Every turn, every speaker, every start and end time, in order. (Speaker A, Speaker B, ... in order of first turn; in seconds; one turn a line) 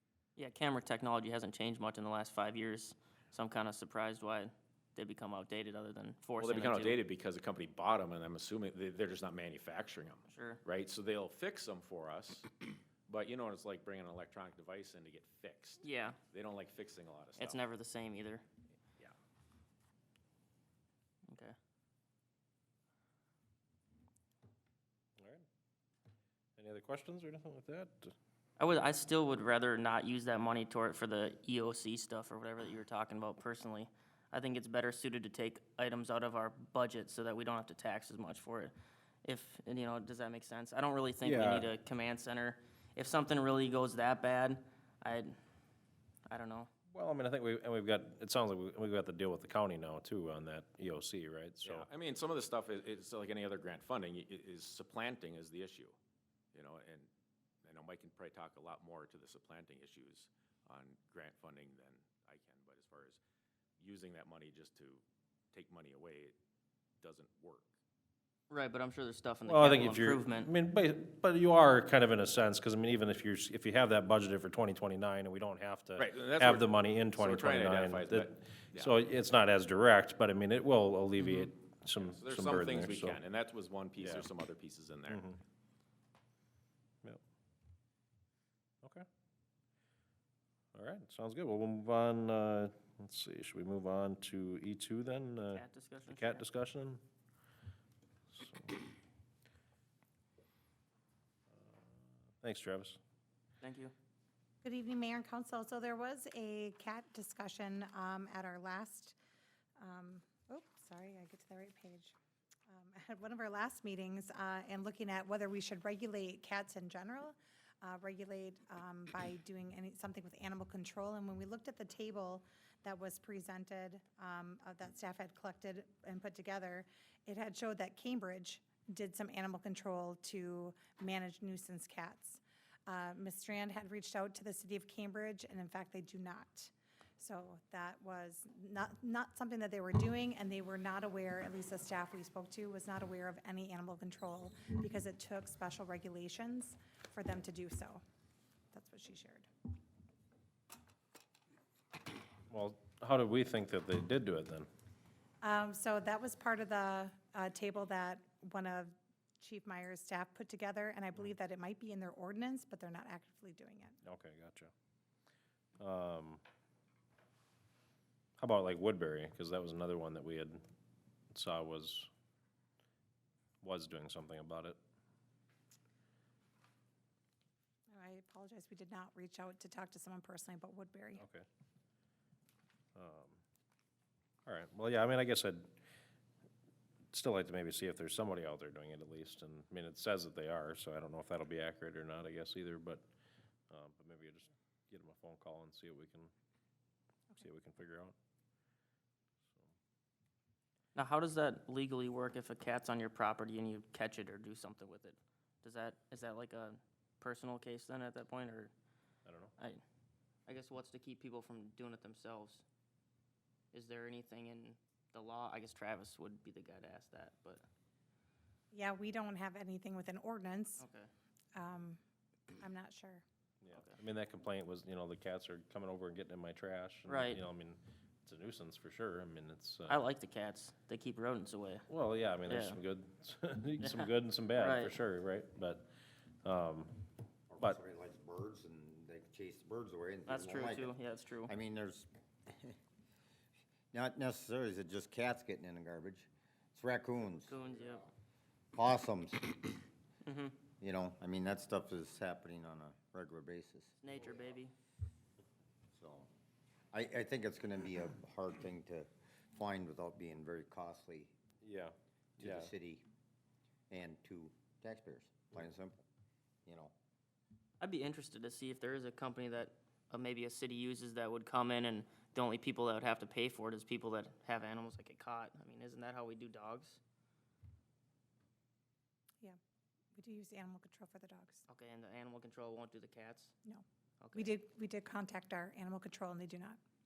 Speaker A: 0.3-7.0
Speaker B: 6.4-12.5
Speaker A: 10.3-10.6
Speaker B: 13.1-17.6
Speaker A: 15.8-16.2
Speaker A: 17.4-18.4
Speaker A: 21.3-21.5
Speaker C: 25.2-25.4
Speaker C: 26.6-28.1
Speaker A: 28.6-38.7
Speaker A: 39.2-45.3
Speaker C: 41.2-41.7
Speaker A: 46.3-46.7
Speaker C: 46.9-51.9
Speaker B: 51.6-56.0
Speaker B: 56.5-57.1
Speaker B: 57.6-63.2
Speaker B: 63.8-66.3
Speaker B: 67.0-67.7
Speaker A: 68.5-70.5
Speaker C: 69.4-83.2
Speaker B: 76.0-78.9
Speaker B: 82.0-85.2
Speaker C: 84.0-84.3
Speaker C: 85.1-85.4
Speaker C: 90.7-97.0
Speaker A: 95.5-96.4
Speaker C: 98.3-98.7
Speaker C: 101.6-103.0
Speaker A: 103.6-103.9
Speaker D: 104.6-109.2
Speaker D: 109.8-112.1
Speaker D: 112.7-148.0
Speaker D: 148.7-149.5
Speaker C: 152.5-154.7
Speaker D: 155.4-163.9
Speaker C: 164.0-164.7
Speaker C: 165.8-166.4
Speaker C: 168.4-170.6
Speaker C: 171.3-172.1
Speaker C: 173.6-174.8
Speaker D: 177.9-181.2
Speaker C: 181.2-181.4
Speaker C: 182.9-183.4
Speaker C: 184.4-185.7
Speaker C: 187.1-193.0
Speaker C: 193.7-196.3
Speaker C: 197.4-198.1
Speaker A: 200.9-208.7
Speaker C: 209.2-209.5
Speaker A: 210.5-212.6
Speaker A: 213.7-217.6
Speaker D: 218.7-220.8
Speaker A: 220.8-221.1
Speaker D: 221.5-222.0
Speaker D: 222.5-223.2
Speaker C: 223.6-230.0
Speaker A: 223.7-224.0
Speaker A: 227.1-227.4
Speaker A: 229.9-231.9
Speaker C: 231.9-235.9
Speaker A: 232.4-232.8
Speaker A: 233.8-235.0
Speaker C: 236.4-237.0
Speaker E: 237.5-242.8
Speaker A: 240.3-241.5
Speaker E: 243.9-247.6
Speaker A: 247.5-248.1
Speaker E: 248.7-249.7
Speaker A: 250.2-250.5
Speaker E: 250.8-253.9
Speaker A: 254.0-254.7
Speaker E: 255.9-256.3
Speaker E: 256.9-261.4
Speaker C: 261.6-262.7
Speaker E: 262.4-263.0
Speaker E: 263.9-266.0
Speaker E: 266.6-266.9
Speaker A: 267.8-277.0
Speaker D: 280.1-281.6
Speaker A: 281.7-283.5
Speaker A: 284.2-284.5
Speaker D: 284.3-286.8